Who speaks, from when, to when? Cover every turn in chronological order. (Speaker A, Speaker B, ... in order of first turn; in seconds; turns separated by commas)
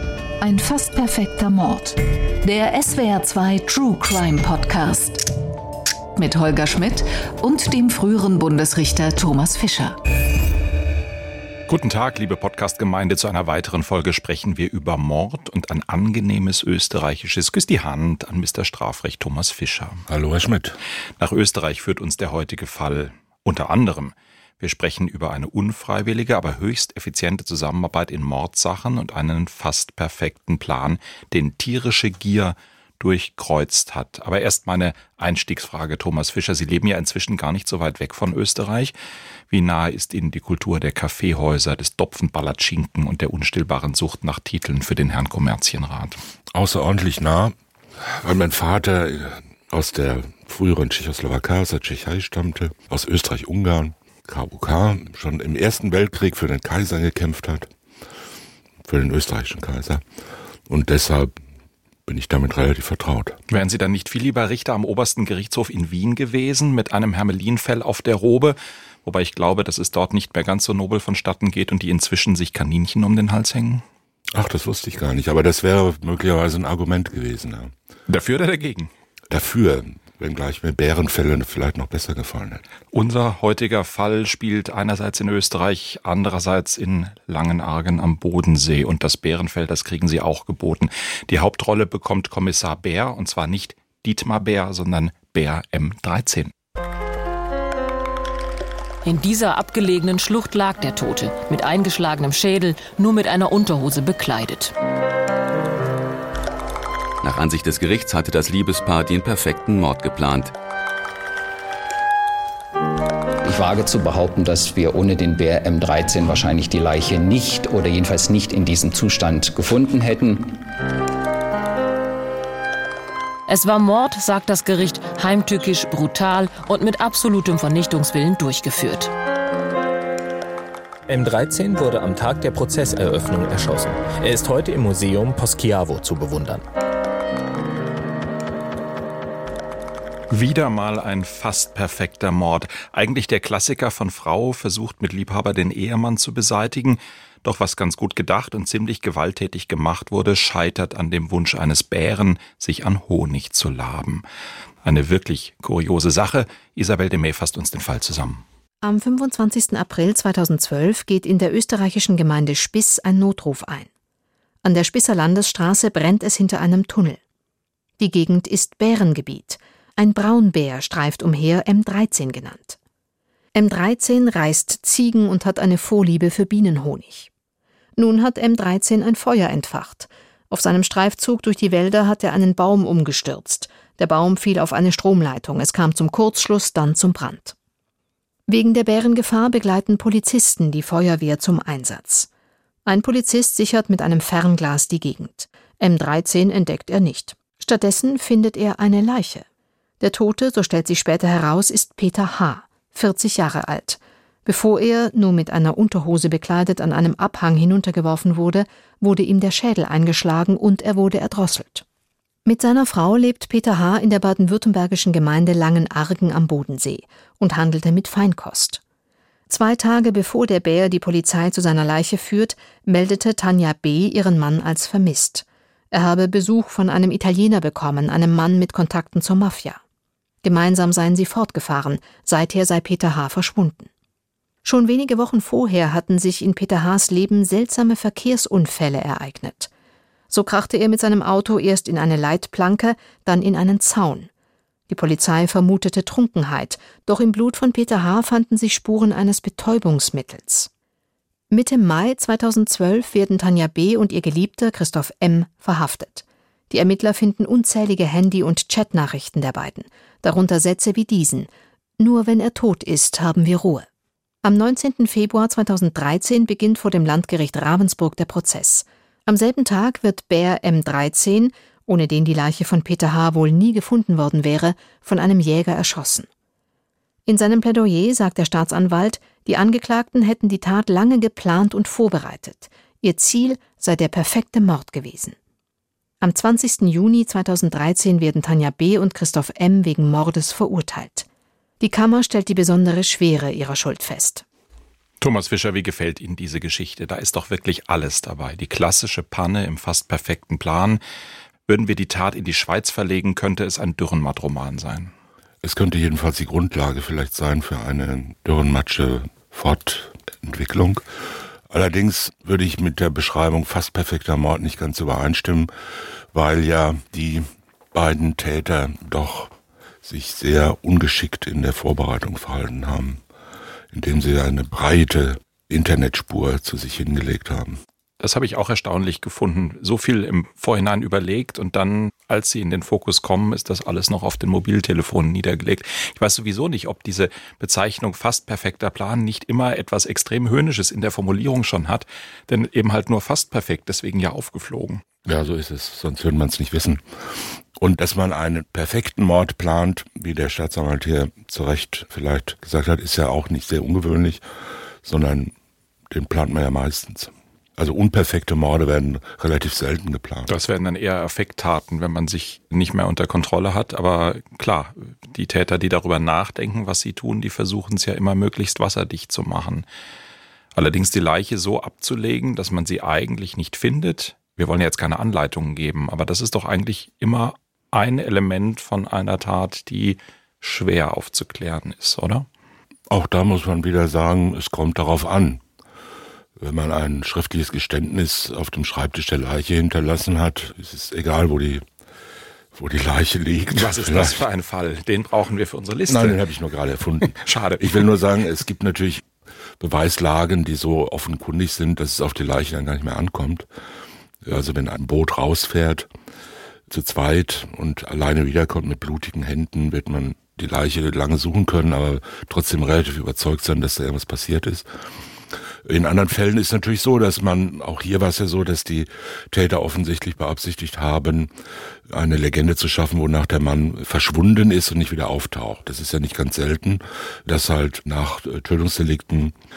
Speaker A: 0.4-5.3, Speaker A: 6.2-10.0, Speaker B: 11.7-20.1, Speaker C: 20.1-20.8, Speaker B: 21.2-38.9, Speaker B: 39.5-46.2, Speaker C: 46.5-57.7, Speaker C: 58.9-60.0, Speaker C: 60.7-61.3, Speaker C: 62.1-63.4, Speaker B: 63.5-73.8, Speaker C: 74.3-77.7, Speaker B: 78.1-78.9, Speaker C: 79.3-82.6, Speaker B: 82.9-96.5, Speaker D: 99.0-104.7, Speaker E: 107.2-110.5, Speaker F: 113.4-120.6, Speaker D: 123.5-129.1, Speaker G: 131.1-136.6, Speaker B: 140.3-154.2, Speaker B: 154.8-158.4, Speaker H: 158.8-163.9, Speaker H: 164.6-167.2, Speaker H: 168.0-172.8, Speaker H: 173.6-177.3, Speaker H: 178.0-187.6, Speaker H: 188.5-192.3, Speaker H: 192.8-199.4, Speaker H: 200.0-211.8, Speaker H: 212.5-218.8, Speaker H: 219.5-229.8, Speaker H: 230.4-233.9, Speaker H: 234.6-239.7, Speaker H: 240.3-244.3, Speaker H: 244.9-250.7, Speaker H: 251.5-263.9, Speaker H: 264.4-276.3, Speaker H: 277.3-285.4, Speaker H: 286.2-291.3, Speaker H: 291.8-294.4, Speaker B: 295.2-301.0, Speaker B: 301.7-305.1, Speaker C: 305.6-311.1, Speaker C: 311.7-315.7, Speaker C: 316.3-323.2, Speaker C: 323.9-327.8, Speaker B: 328.2-345.0, Speaker C: 345.3-347.0, Speaker C: 347.8-354.4, Speaker C: 355.0-355.5, Speaker C: 356.1-360.5, Speaker B: 360.5-369.9, Speaker B: 370.8-382.5, Speaker C: 383.1-385.6, Speaker C: 386.6-391.9, Speaker C: 392.7-394.4, Speaker B: 393.8-396.4, Speaker C: 396.1-399.2, Speaker B: 397.2-398.1, Speaker C: 399.8-403.7, Speaker C: 404.4-406.1, Speaker C: 406.9-414.9, Speaker C: 415.9-421.5, Speaker C: 422.1-429.6